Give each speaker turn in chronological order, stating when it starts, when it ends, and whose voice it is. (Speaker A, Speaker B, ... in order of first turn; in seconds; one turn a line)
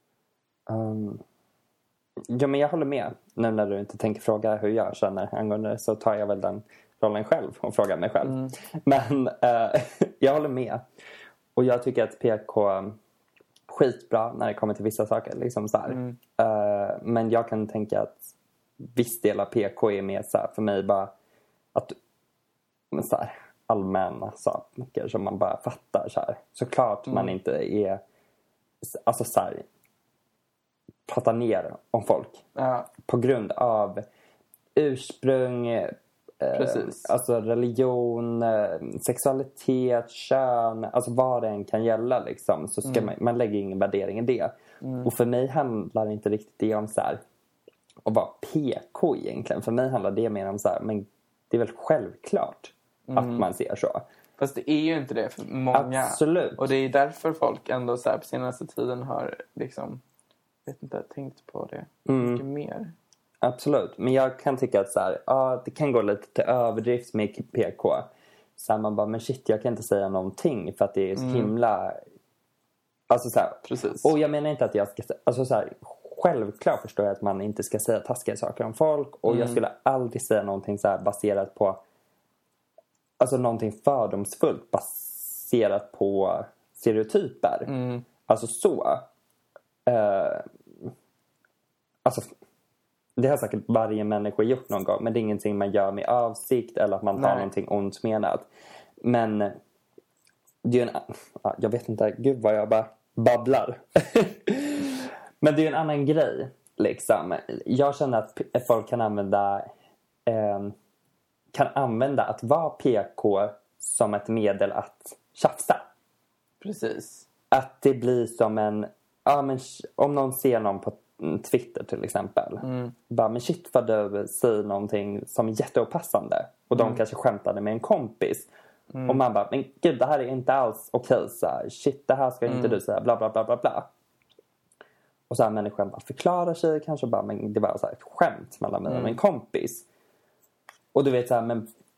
Speaker A: 0.7-1.2
Speaker A: 2.3-10.8
Speaker B: 8.2-8.5
Speaker A: 11.6-13.0
Speaker A: 13.7-18.2
Speaker B: 15.9-16.2
Speaker A: 18.8-21.1
Speaker A: 22.9-28.0
Speaker B: 27.1-27.3
Speaker A: 28.8-29.6
Speaker A: 31.1-32.4
Speaker B: 32.5-32.9
Speaker A: 33.0-34.0
Speaker A: 34.7-47.2
Speaker B: 36.5-37.1
Speaker B: 42.8-43.1
Speaker B: 44.8-45.1
Speaker A: 48.0-54.0
Speaker B: 53.1-53.5
Speaker B: 54.4-60.0
Speaker A: 55.7-56.7
Speaker B: 60.6-62.9
Speaker A: 62.0-62.4
Speaker A: 63.4-72.0
Speaker B: 71.1-71.5
Speaker A: 73.1-81.8
Speaker B: 73.7-74.1
Speaker B: 79.3-79.6
Speaker A: 83.2-87.7
Speaker B: 87.7-88.0
Speaker A: 88.3-89.1
Speaker A: 89.8-90.4
Speaker A: 93.2-98.5
Speaker B: 97.1-97.5
Speaker A: 99.0-99.5
Speaker A: 100.6-109.7
Speaker A: 110.2-110.7
Speaker A: 111.5-115.8
Speaker B: 116.6-117.2
Speaker A: 117.5-128.5
Speaker B: 122.6-122.9
Speaker B: 126.7-127.0
Speaker B: 128.9-129.2
Speaker A: 129.1-133.9
Speaker B: 132.4-132.8
Speaker A: 135.3-139.8
Speaker B: 138.9-139.2
Speaker A: 140.9-141.7